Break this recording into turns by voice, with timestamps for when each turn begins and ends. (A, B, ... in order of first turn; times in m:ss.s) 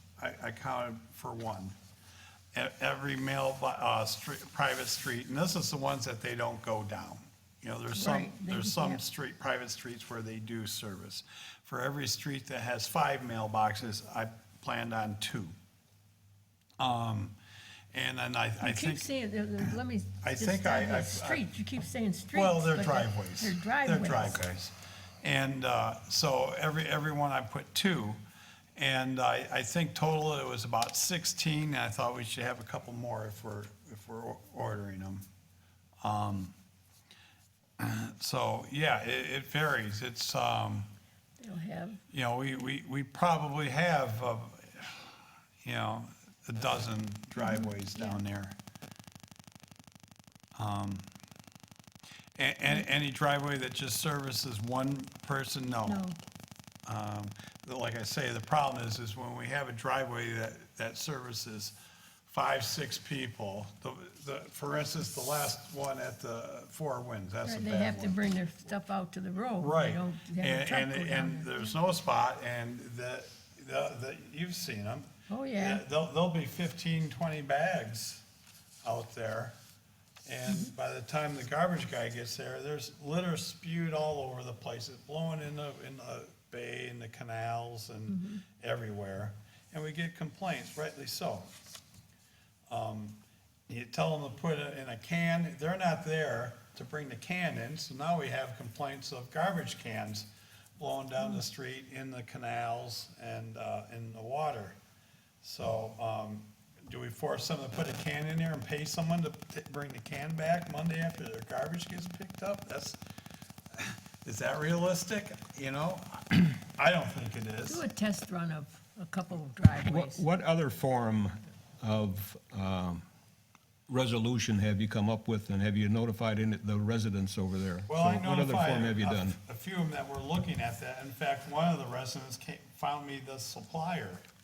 0:00.2-0:01.7 A
0:02.5-0:15.5 A
0:07.9-0:09.0 B
0:16.8-0:17.4 A
0:17.9-0:19.1 A
0:18.6-0:24.4 B
0:20.2-0:21.4 A
0:22.3-0:28.2 A
0:24.2-0:24.5 C
0:28.8-0:35.2 A
0:36.0-0:36.5 A
0:37.8-0:40.9 A
0:41.4-0:42.0 B
0:42.1-0:48.6 A
0:47.4-0:48.2 B
0:50.6-0:51.1 A
0:52.4-0:56.0 A
0:55.8-0:56.2 B
0:56.9-1:01.7 A
1:02.3-1:08.2 A
1:07.4-1:11.7 B
1:09.6-1:18.2 A
1:15.3-1:15.8 B
1:18.8-1:19.5 A
1:20.2-1:31.5 A
1:28.1-1:28.4 B
1:32.7-1:40.3 A
1:40.8-1:44.8 A
1:45.4-1:53.0 A
1:53.7-1:57.8 A
1:57.6-2:00.2 B
1:59.8-2:03.0 C
2:03.9-2:09.4 C
2:07.9-2:14.2 A